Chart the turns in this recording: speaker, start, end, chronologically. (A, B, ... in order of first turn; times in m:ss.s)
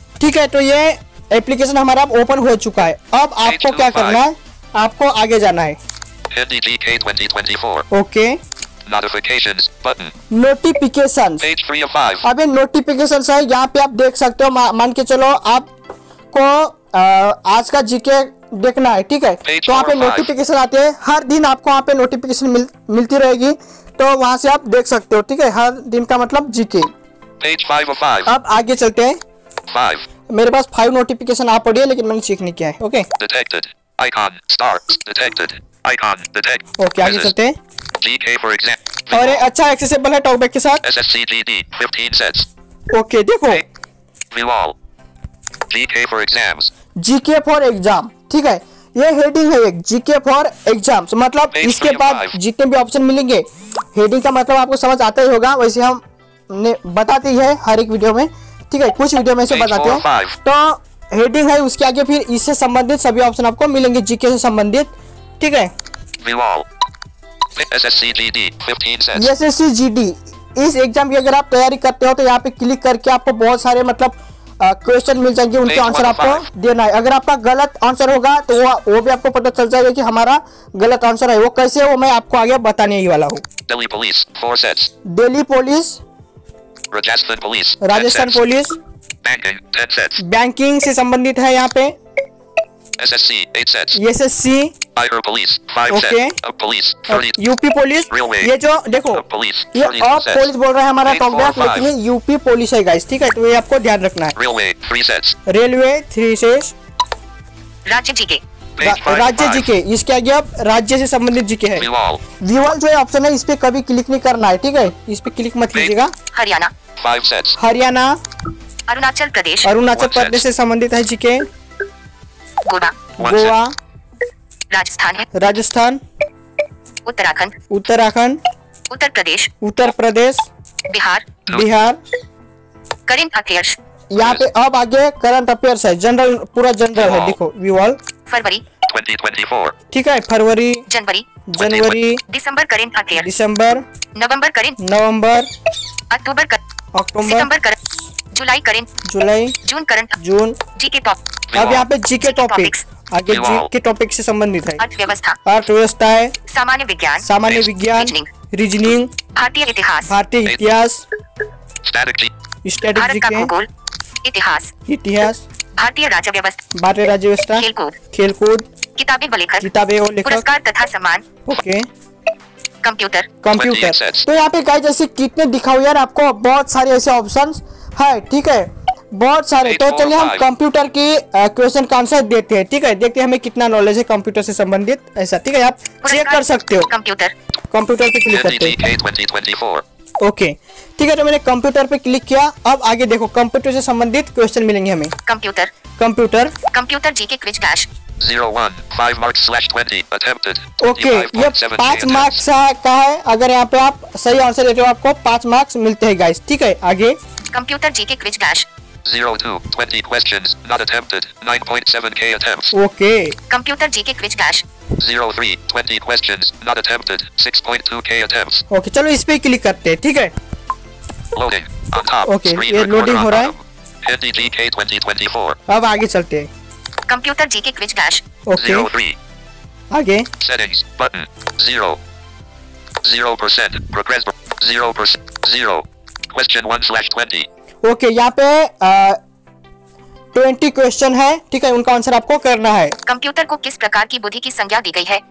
0:00.2-0:05.8 A
0:03.4-0:04.2 B
0:06.3-0:07.8 B
0:07.9-0:08.4 A
0:08.8-0:10.1 B
0:10.3-0:11.4 A
0:11.4-0:12.2 B
0:12.2-0:15.7 A
0:16.3-0:26.9 A
0:19.4-0:20.3 B
0:27.4-0:28.3 B
0:28.2-0:29.2 A
0:29.7-0:30.0 B
0:30.3-0:33.1 A
0:33.2-0:37.3 B
0:36.8-0:37.6 A
0:38.0-0:39.4 B
0:39.1-0:40.8 A
0:40.8-0:42.5 B
0:42.9-0:43.6 A
0:44.3-0:44.7 B
0:45.7-0:46.7 B
0:47.0-1:05.7 A
0:51.5-0:52.4 B
0:59.5-1:00.4 B
1:06.2-1:06.6 B
1:07.5-1:09.3 B
1:09.1-1:23.4 A
1:15.6-1:16.5 B
1:23.7-1:24.9 B
1:25.1-1:26.0 A
1:26.9-1:28.4 B
1:27.8-1:28.8 A
1:29.2-1:30.2 B
1:30.2-1:31.9 A
1:33.0-1:34.0 B
1:33.9-1:34.7 A
1:34.9-1:37.4 B
1:35.9-1:36.4 A
1:37.1-1:44.4 A
1:38.1-1:38.5 B
1:39.1-1:40.5 B
1:41.0-1:41.9 B
1:44.4-1:45.4 B
1:45.5-1:46.7 A
1:47.9-1:48.4 C
1:48.8-1:49.7 B
1:48.8-1:51.8 A
1:51.8-1:52.2 B
1:52.4-1:56.1 A
1:56.3-1:56.7 C
1:57.0-1:57.6 B
1:57.6-1:58.2 A
1:58.9-1:59.7 C
1:59.6-2:01.5 A
1:59.9-2:00.4 B
2:02.6-2:03.0 C
2:03.2-2:03.8 A
2:03.2-2:03.5 B
2:04.7-2:05.3 C
2:05.3-2:06.0 A
2:07.0-2:07.5 C
2:07.7-2:08.4 A
2:08.9-2:09.5 C
2:09.6-2:10.5 A
2:10.9-2:11.3 C
2:11.4-2:12.0 A
2:13.1-2:13.8 C
2:14.1-2:18.0 A
2:14.2-2:14.4 B
2:16.9-2:17.4 B
2:18.3-2:18.6 C
2:18.9-2:19.7 B
2:19.9-2:20.9 A
2:20.9-2:21.3 C
2:21.5-2:22.2 A
2:21.6-2:22.0 B
2:22.3-2:23.2 C
2:23.1-2:23.8 A
2:24.1-2:24.8 C
2:24.8-2:25.5 A
2:26.1-2:26.6 C
2:26.9-2:27.5 A
2:27.2-2:27.8 C
2:28.3-2:28.9 C
2:29.0-2:29.6 A
2:29.6-2:30.2 C
2:30.2-2:30.6 A
2:30.7-2:31.2 C
2:31.5-2:31.9 B
2:31.5-2:34.8 A
2:32.2-2:32.8 C
2:33.3-2:33.7 B
2:34.8-2:35.4 C
2:35.4-2:36.4 A
2:36.5-2:37.2 C
2:37.2-2:39.2 A
2:37.9-2:38.3 C
2:39.3-2:40.1 C
2:40.0-2:41.0 A
2:41.8-2:42.3 B
2:42.6-2:43.5 A
2:42.9-2:43.7 C
2:44.2-2:44.7 C
2:44.9-2:45.4 A
2:45.8-2:46.6 C
2:46.7-2:48.6 A
2:47.6-2:48.0 C
2:49.0-2:49.7 C
2:49.6-2:50.4 A
2:50.2-2:51.2 C
2:51.4-2:51.9 A
2:52.8-2:53.3 C
2:53.4-3:06.9 A
2:53.5-2:54.2 B
2:59.6-3:00.4 B
3:06.0-3:07.3 C
3:07.7-3:08.8 A
3:08.3-3:09.8 B
3:10.2-3:15.1 A
3:15.2-3:15.7 C
3:16.0-3:16.5 A
3:16.7-3:17.9 C
3:18.2-3:22.4 B
3:20.8-3:27.2 A
3:27.5-3:28.7 C
3:29.0-3:32.7 B
3:32.7-3:33.4 A
3:33.5-3:34.6 C
3:35.0-3:38.6 B
3:38.7-3:40.3 A
3:41.3-3:45.6 B
3:42.2-3:43.5 A
3:45.7-3:46.5 A
3:47.1-3:48.2 C
3:48.5-3:48.9 A
3:48.6-3:49.2 B
3:49.9-3:50.3 A
3:50.4-3:52.0 B
3:53.0-3:57.5 B
3:57.8-3:59.2 A
4:00.3-4:03.0 A
4:03.0-4:05.2 C